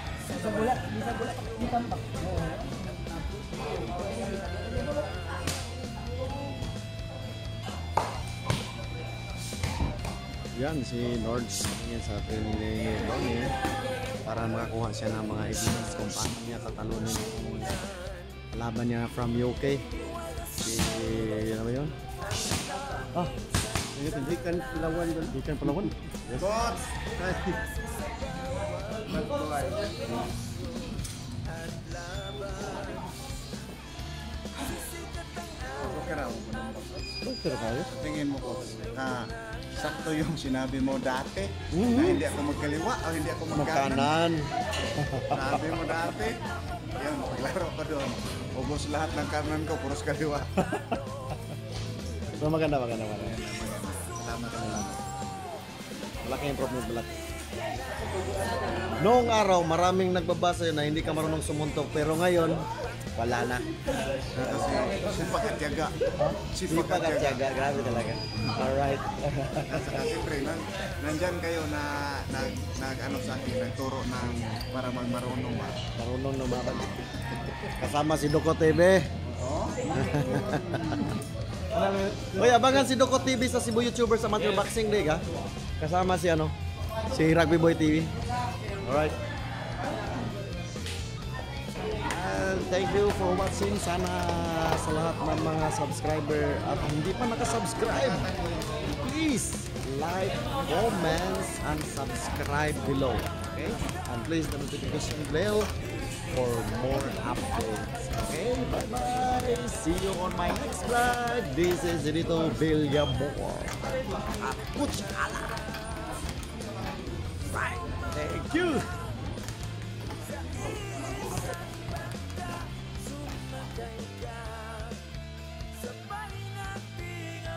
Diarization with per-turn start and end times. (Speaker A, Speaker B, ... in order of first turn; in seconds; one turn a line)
Speaker A: 0.3-2.8
Speaker B: 10.5-13.5
Speaker B: 14.2-17.8
Speaker B: 18.5-19.9
Speaker B: 20.6-21.9
Speaker B: 24.0-26.6
Speaker C: 26.4-26.9
Speaker C: 29.1-30.1
Speaker C: 35.8-37.2
Speaker B: 37.2-37.9
Speaker C: 37.9-44.1
Speaker B: 41.7-42.2
Speaker B: 43.5-46.0
Speaker C: 45.3-46.4
Speaker C: 47.0-50.5
Speaker B: 50.6-51.0
Speaker B: 52.4-53.4
Speaker C: 53.2-55.0
Speaker B: 54.5-54.9
Speaker B: 56.2-57.1
Speaker B: 59.0-62.6
Speaker B: 63.2-63.7
Speaker B: 64.3-65.0
Speaker C: 64.4-66.0
Speaker B: 66.2-69.9
Speaker C: 66.5-68.1
Speaker C: 69.7-75.8
Speaker B: 76.0-77.0
Speaker B: 77.8-79.1
Speaker C: 79.3-79.8
Speaker B: 80.0-81.1
Speaker B: 82.0-85.2
Speaker B: 85.8-86.5
Speaker B: 87.1-88.1
Speaker B: 88.8-89.2
Speaker B: 92.1-98.3
Speaker B: 98.9-105.7
Speaker B: 106.3-115.7
Speaker B: 117.5-118.9
Speaker B: 124.0-124.8
Speaker B: 126.3-127.3